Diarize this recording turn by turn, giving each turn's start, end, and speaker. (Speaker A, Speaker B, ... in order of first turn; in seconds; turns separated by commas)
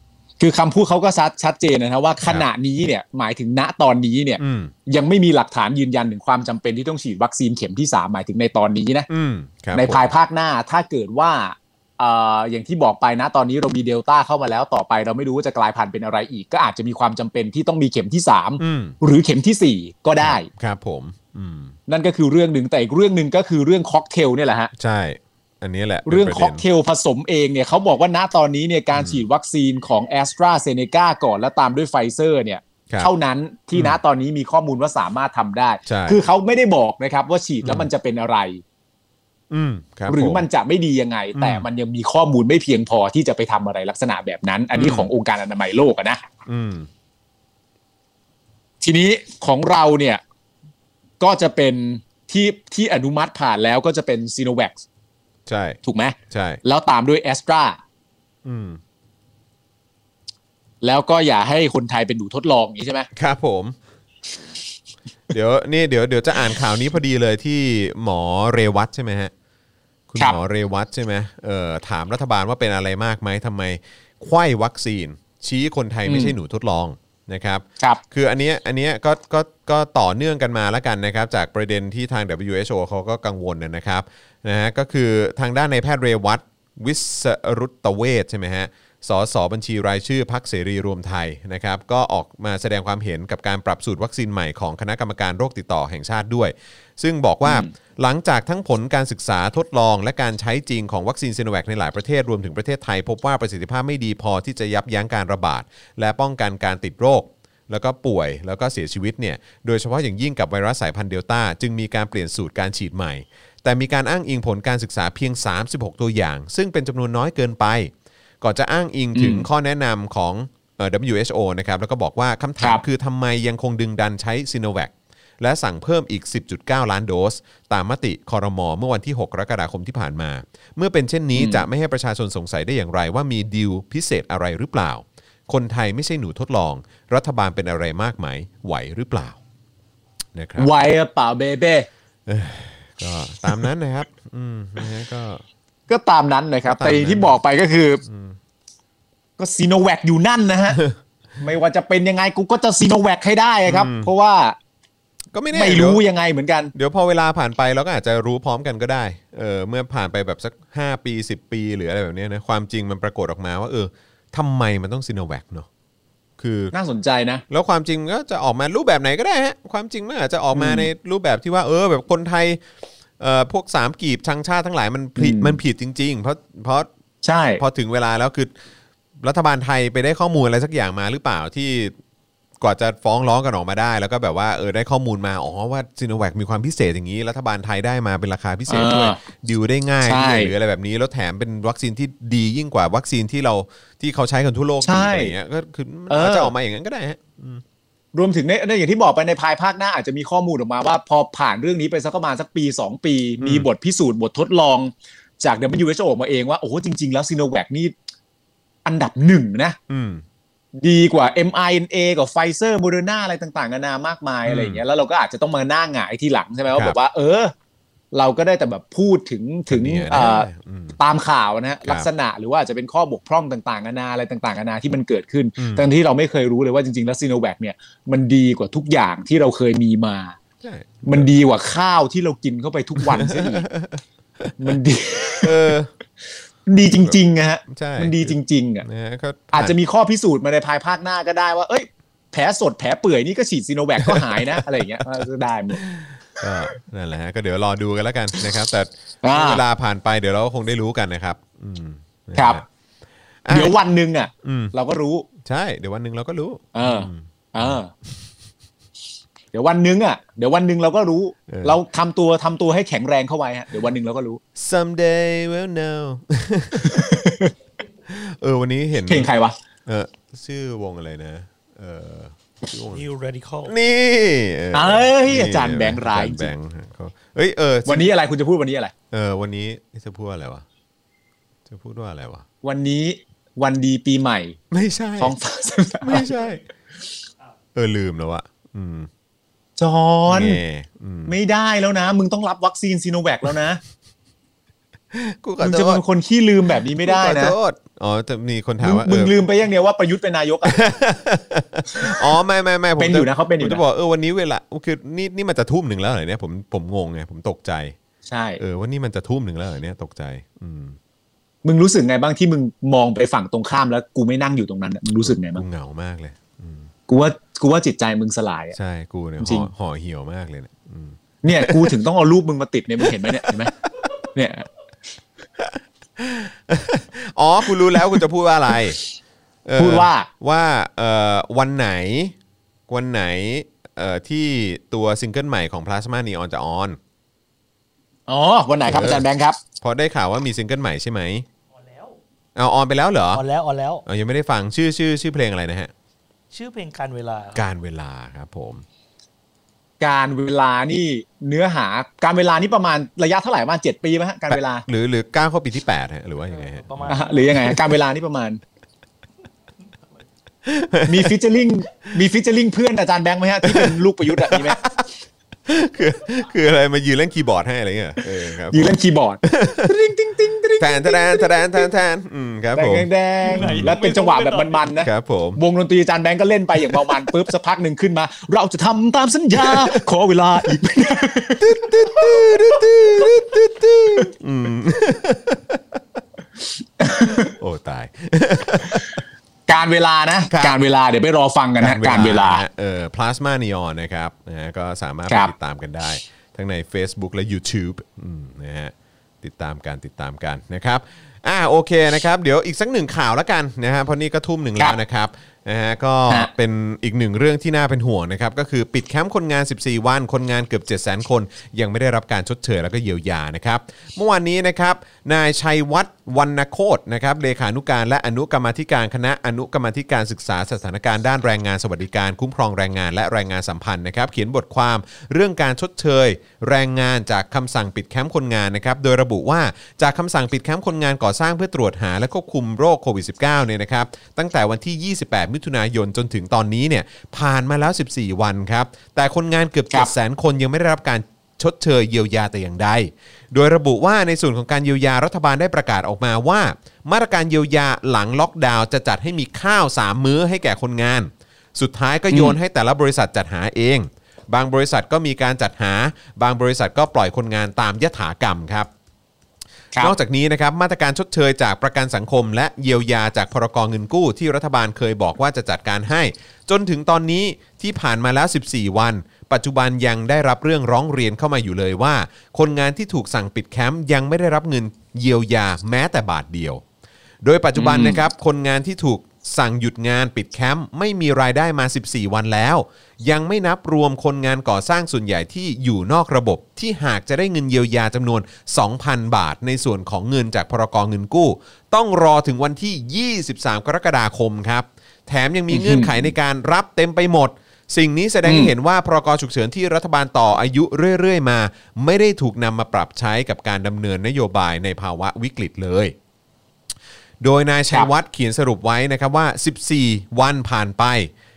Speaker A: 0.4-9.1, Speaker B: 4.4-4.7, Speaker B: 9.1-10.1, Speaker A: 9.7-20.5, Speaker B: 18.6-18.9, Speaker B: 20.2-21.7, Speaker A: 21.9-24.7, Speaker B: 24.8-26.6, Speaker A: 26.1-38.6, Speaker B: 28.9-29.2, Speaker B: 33.7-34.0, Speaker B: 35.9-36.2, Speaker B: 39.5-40.5, Speaker A: 40.1-46.2, Speaker B: 41.4-41.6, Speaker B: 44.7-45.1, Speaker B: 46.5-46.9, Speaker A: 48.8-50.2, Speaker A: 51.2-54.8, Speaker B: 55.5-55.8, Speaker A: 55.9-57.8, Speaker B: 56.3-56.6, Speaker B: 58.4-58.8, Speaker A: 60.8-63.1, Speaker B: 63.1-63.8, Speaker B: 65.3-69.3, Speaker B: 70.1-139.4, Speaker A: 76.1-76.3, Speaker A: 97.4-97.7, Speaker A: 119.2-119.5, Speaker A: 131.3-131.7, Speaker B: 140.3-140.7, Speaker A: 140.6-141.9, Speaker B: 142.3-145.4, Speaker A: 145.9-148.0, Speaker B: 146.7-147.4, Speaker B: 148.1-148.4, Speaker A: 149.4-150.8, Speaker A: 151.4-154.6, Speaker B: 153.7-154.1, Speaker B: 155.3-156.0, Speaker A: 155.5-156.7, Speaker B: 156.7-165.7, Speaker B: 166.4-166.7, Speaker A: 166.7-167.4, Speaker B: 167.5-172.6, Speaker A: 170.5-170.9, Speaker B: 173.2-176.9, Speaker A: 175.2-175.6, Speaker A: 177.2-177.6, Speaker B: 177.6-178.5, Speaker B: 179.2-181.9, Speaker B: 182.6-197.6, Speaker A: 188.7-189.2, Speaker A: 190.0-190.5, Speaker A: 194.8-195.3, Speaker A: 196.1-196.5, Speaker A: 198.1-207.9, Speaker B: 203.4-203.7, Speaker A: 208.8-209.8, Speaker B: 209.9-210.2, Speaker A: 210.8-217.5, Speaker B: 214.4-214.8, Speaker A: 218.1-230.4, Speaker B: 219.7-221.0, Speaker B: 225.6-225.8, Speaker B: 230.6-231.3, Speaker A: 231.1-233.7, Speaker B: 233.0-234.7, Speaker A: 234.6-235.7, Speaker B: 235.4-235.9, Speaker A: 236.7-238.9, Speaker B: 236.9-239.7, Speaker A: 239.5-245.9, Speaker B: 244.0-245.2, Speaker B: 245.7-252.6, Speaker A: 249.2-249.6, Speaker A: 252.3-252.6, Speaker B: 253.4-253.8, Speaker A: 253.5-255.3, Speaker B: 254.4-254.7, Speaker B: 255.4-257.8, Speaker A: 256.7-257.9, Speaker A: 259.5-264.4, Speaker B: 261.5-261.8, Speaker B: 264.6-266.9, Speaker A: 266.8-267.5, Speaker B: 268.1-269.3, Speaker A: 269.1-269.6, Speaker B: 269.9-273.1, Speaker C: 272.9-273.7, Speaker B: 273.6-278.1, Speaker A: 274.7-276.5, Speaker A: 277.9-278.9, Speaker B: 279.1-280.6, Speaker B: 281.7-282.4, Speaker A: 282.6-284.6, Speaker B: 284.7-285.3, Speaker A: 285.2-286.3, Speaker B: 286.0-286.6, Speaker B: 287.7-289.1, Speaker A: 289.8-290.6, Speaker B: 290.3-291.4, Speaker A: 291.3-293.8, Speaker B: 295.1-296.0, Speaker A: 295.6-297.6, Speaker B: 296.9-299.3, Speaker A: 298.8-300.8, Speaker B: 300.6-307.9, Speaker A: 303.0-303.8, Speaker A: 308.3-308.6, Speaker B: 308.6-311.0, Speaker A: 311.6-315.6, Speaker B: 315.2-316.9, Speaker A: 317.1-318.7, Speaker B: 318.7-321.9, Speaker A: 319.4-319.7, Speaker A: 321.4-323.7, Speaker B: 323.0-323.7, Speaker A: 324.3-324.6, Speaker B: 325.6-329.0, Speaker B: 329.6-332.4, Speaker A: 329.8-330.3, Speaker B: 332.9-337.0, Speaker A: 338.3-339.6, Speaker B: 338.9-339.2, Speaker B: 339.8-341.4, Speaker C: 341.7-342.2, Speaker B: 342.6-343.4, Speaker C: 343.3-344.0, Speaker B: 344.1-345.9, Speaker C: 346.5-347.6, Speaker B: 347.6-348.8, Speaker A: 350.0-354.9, Speaker B: 354.5-357.8, Speaker C: 356.5-357.7, Speaker A: 357.1-358.6, Speaker B: 360.6-361.4, Speaker A: 361.1-364.8, Speaker B: 363.6-365.1, Speaker B: 365.6-369.9, Speaker A: 368.7-371.9, Speaker B: 370.8-373.9, Speaker A: 372.7-381.8, Speaker C: 373.4-374.9, Speaker B: 375.0-375.6, Speaker B: 377.1-377.3, Speaker B: 379.6-380.0, Speaker B: 381.6-386.0, Speaker A: 387.0-387.5, Speaker B: 387.4-389.1, Speaker A: 389.7-392.6, Speaker B: 390.5-390.8, Speaker B: 391.8-458.9, Speaker A: 452.3-452.6, Speaker B: 460.0-476.8, Speaker B: 477.4-506.1, Speaker A: 477.8-478.2, Speaker A: 495.7-496.3, Speaker A: 498.4-498.7, Speaker B: 507.4-511.3